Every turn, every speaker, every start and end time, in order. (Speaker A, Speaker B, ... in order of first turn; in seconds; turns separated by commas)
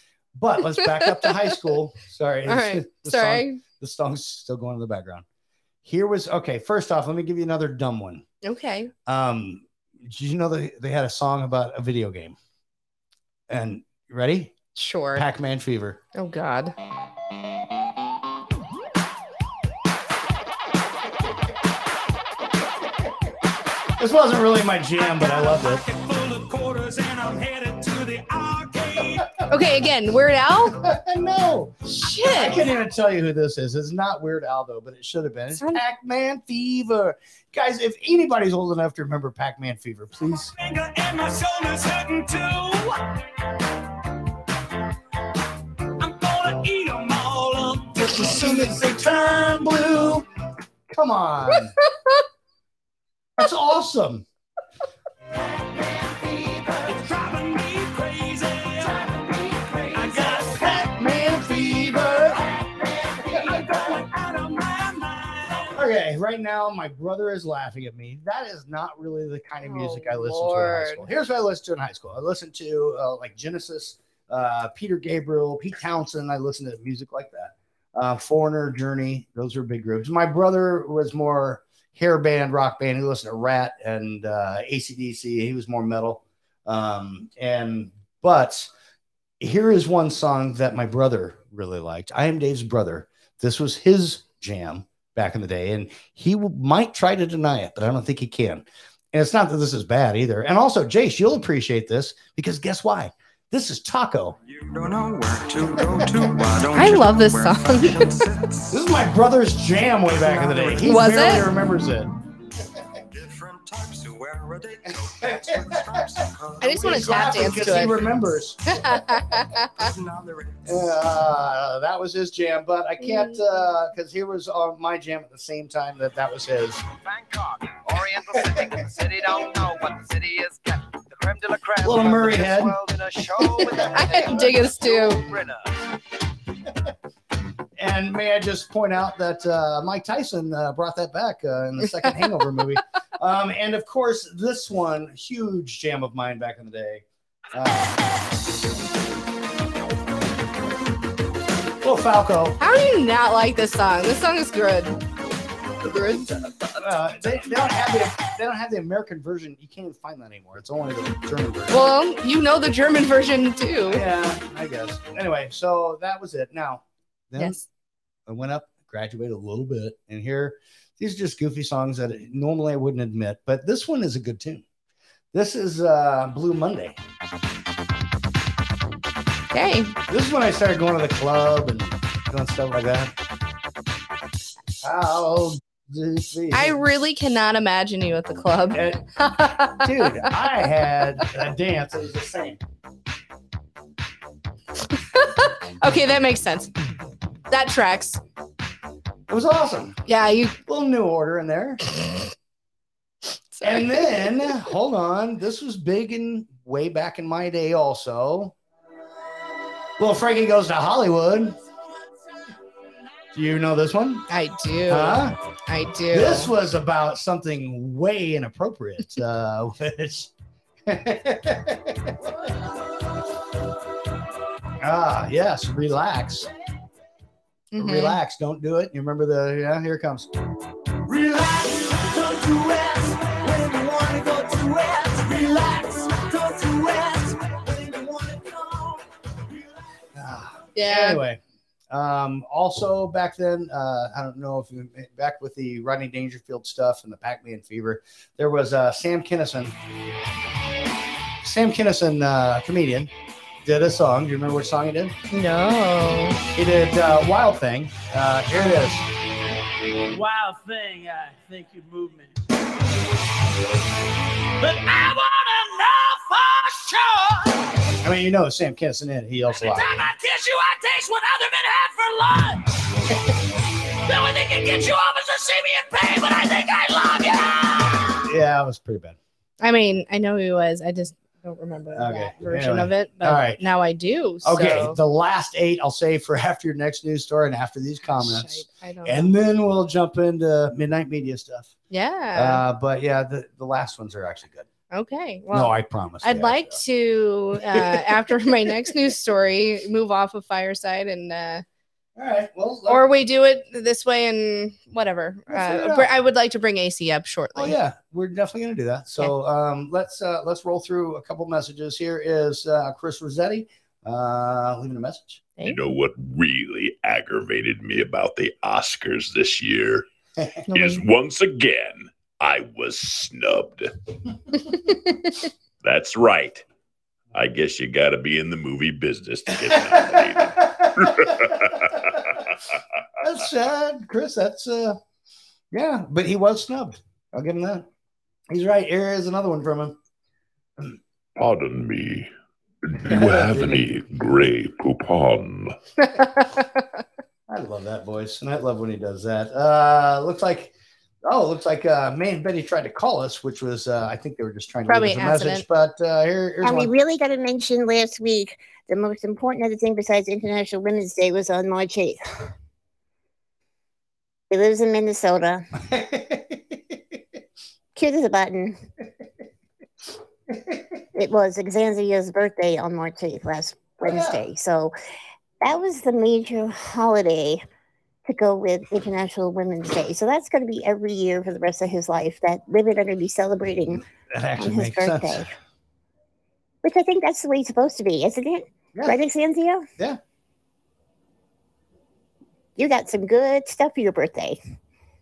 Speaker A: 0.3-5.2, Speaker B: 0.8-1.6, Speaker B: 2.5-3.6, Speaker A: 5.8-8.2, Speaker B: 8.4-8.9, Speaker A: 9.1-12.3, Speaker A: 13.5-14.6, Speaker B: 14.7-15.2, Speaker A: 15.1-16.0, Speaker B: 16.1-16.7, Speaker A: 24.0-25.9, Speaker C: 25.9-29.1, Speaker B: 29.5-30.9, Speaker A: 30.7-40.5, Speaker B: 32.0-32.7, Speaker B: 35.5-35.8, Speaker C: 40.7-42.7, Speaker C: 46.0-47.9, Speaker A: 47.9-50.2, Speaker A: 50.9-51.7, Speaker A: 53.4-54.2, Speaker C: 57.4-58.3, Speaker A: 59.9-62.5, Speaker A: 63.2-64.0, Speaker A: 65.7-88.7, Speaker B: 69.6-71.0, Speaker A: 89.4-104.3, Speaker C: 104.8-108.0, Speaker B: 106.7-108.1, Speaker A: 108.7-112.1, Speaker B: 110.8-111.5, Speaker C: 113.7-115.3, Speaker A: 115.2-116.0, Speaker B: 116.6-118.0, Speaker A: 116.6-119.3, Speaker B: 118.7-119.9, Speaker A: 120.6-126.8, Speaker B: 123.0-123.4, Speaker D: 127.2-135.7, Speaker A: 128.5-128.8, Speaker A: 131.8-132.8, Speaker B: 133.9-135.2, Speaker A: 133.9-134.9, Speaker A: 137.8-148.0, Speaker A: 151.8-152.6, Speaker B: 152.6-155.0, Speaker B: 155.8-156.3, Speaker A: 156.7-161.9, Speaker B: 161.7-164.0, Speaker A: 163.9-167.6, Speaker A: 168.3-174.6, Speaker A: 175.3-177.0, Speaker B: 179.5-179.9, Speaker A: 180.1-183.1, Speaker A: 184.8-186.8, Speaker B: 186.5-190.3, Speaker A: 188.7-189.0, Speaker A: 189.8-192.6, Speaker B: 195.0-196.7, Speaker B: 197.5-198.2, Speaker A: 199.3-200.0, Speaker B: 200.1-200.6, Speaker A: 200.7-201.8, Speaker B: 201.9-202.2, Speaker B: 203.5-204.5, Speaker A: 203.6-208.5, Speaker A: 210.0-211.6, Speaker A: 213.3-214.2, Speaker B: 214.3-216.5, Speaker A: 214.9-215.4, Speaker A: 216.1-220.3, Speaker A: 220.8-222.1, Speaker A: 224.8-226.5, Speaker B: 227.7-228.2, Speaker A: 227.8-230.3, Speaker C: 231.1-238.8, Speaker A: 240.1-249.7, Speaker B: 240.7-241.2, Speaker A: 251.4-253.1, Speaker A: 253.6-255.2, Speaker B: 255.3-256.4, Speaker A: 256.5-259.1, Speaker D: 261.1-262.2, Speaker C: 264.6-267.5, Speaker A: 268.0-270.0, Speaker C: 269.6-272.7, Speaker C: 273.9-278.2, Speaker A: 278.2-279.2, Speaker B: 279.6-285.0, Speaker A: 281.9-283.6, Speaker A: 284.4-291.7, Speaker B: 288.2-289.3, Speaker B: 291.9-292.6, Speaker A: 292.3-294.7, Speaker B: 294.9-301.6, Speaker A: 295.5-296.8, Speaker A: 297.7-298.9, Speaker A: 302.1-303.1, Speaker B: 302.9-307.8, Speaker A: 305.5-306.1, Speaker A: 307.5-315.4, Speaker E: 315.6-320.1, Speaker B: 320.7-321.0, Speaker E: 320.7-323.9, Speaker E: 325.8-326.6, Speaker E: 327.3-332.3, Speaker A: 329.7-331.8, Speaker A: 333.2-335.0, Speaker A: 335.7-337.9, Speaker A: 338.5-340.0, Speaker E: 341.4-342.3, Speaker E: 342.9-345.8, Speaker A: 343.1-344.0, Speaker B: 346.0-346.8, Speaker A: 347.5-350.7, Speaker A: 351.2-356.9, Speaker B: 354.9-355.6, Speaker F: 356.6-362.2, Speaker F: 364.5-365.7, Speaker A: 365.9-366.4, Speaker F: 367.9-368.8, Speaker F: 371.1-374.9, Speaker A: 374.0-374.4, Speaker F: 375.6-377.6, Speaker F: 378.2-384.0, Speaker A: 384.3-385.4, Speaker F: 384.6-385.5, Speaker F: 386.8-389.9, Speaker A: 388.9-389.2, Speaker F: 392.8-394.6